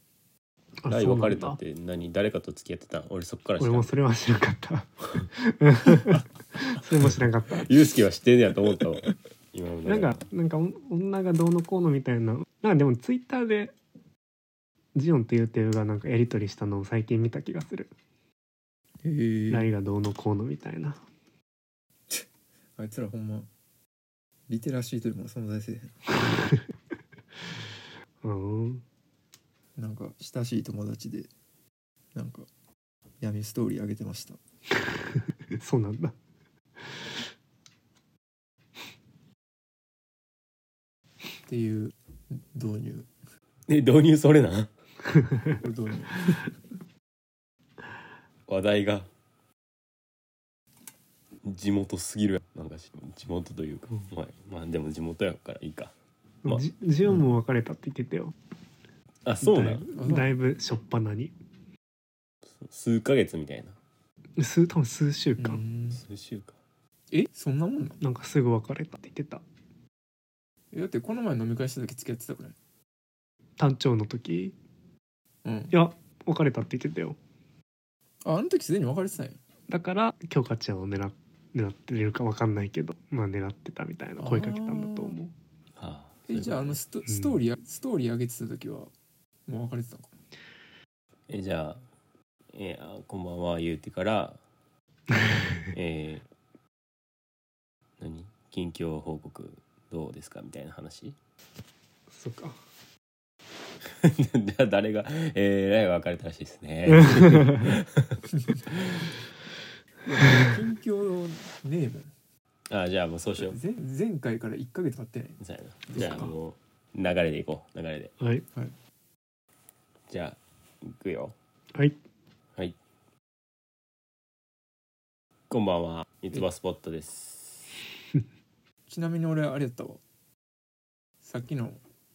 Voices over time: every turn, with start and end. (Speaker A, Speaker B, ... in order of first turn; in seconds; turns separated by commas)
Speaker A: 0.8-1.6, Speaker B: 0.9-3.9, Speaker A: 3.6-7.7, Speaker B: 7.0-10.2, Speaker A: 9.8-13.7, Speaker A: 14.9-17.9, Speaker C: 19.0-19.7, Speaker A: 19.5-21.0, Speaker C: 22.8-23.5, Speaker C: 24.5-26.2, Speaker A: 28.2-28.8, Speaker C: 29.8-31.3, Speaker C: 32.1-32.5, Speaker C: 33.2-34.4, Speaker A: 35.5-36.1, Speaker C: 41.5-43.1, Speaker B: 43.7-44.7, Speaker A: 45.1-45.5, Speaker C: 45.6-46.5, Speaker B: 48.5-49.1, Speaker B: 51.4-55.9, Speaker A: 56.4-58.4, Speaker B: 59.2-59.9, Speaker A: 59.4-61.3, Speaker C: 59.8-60.3, Speaker B: 62.6-63.7, Speaker A: 64.4-65.6, Speaker C: 65.4-66.0, Speaker B: 66.0-66.5, Speaker C: 67.1-68.0, Speaker A: 68.0-69.4, Speaker C: 70.7-72.5, Speaker A: 73.6-74.5, Speaker C: 75.4-75.7, Speaker A: 75.7-77.2, Speaker C: 78.2-79.4, Speaker A: 79.7-85.3, Speaker C: 84.2-85.2, Speaker B: 85.8-86.7, Speaker C: 86.3-88.9, Speaker A: 87.1-87.3, Speaker C: 89.5-90.1, Speaker B: 91.3-91.8, Speaker B: 92.5-94.4, Speaker A: 95.2-95.7, Speaker B: 95.7-96.2, Speaker B: 98.0-101.2, Speaker A: 102.1-102.6, Speaker B: 103.8-108.8, Speaker A: 106.9-107.7, Speaker C: 110.0-112.1, Speaker B: 112.7-113.6, Speaker C: 113.4-116.3, Speaker B: 115.4-118.1, Speaker A: 118.2-118.4, Speaker B: 120.1-121.3, Speaker B: 125.5-127.7, Speaker C: 128.9-130.0, Speaker C: 131.2-131.8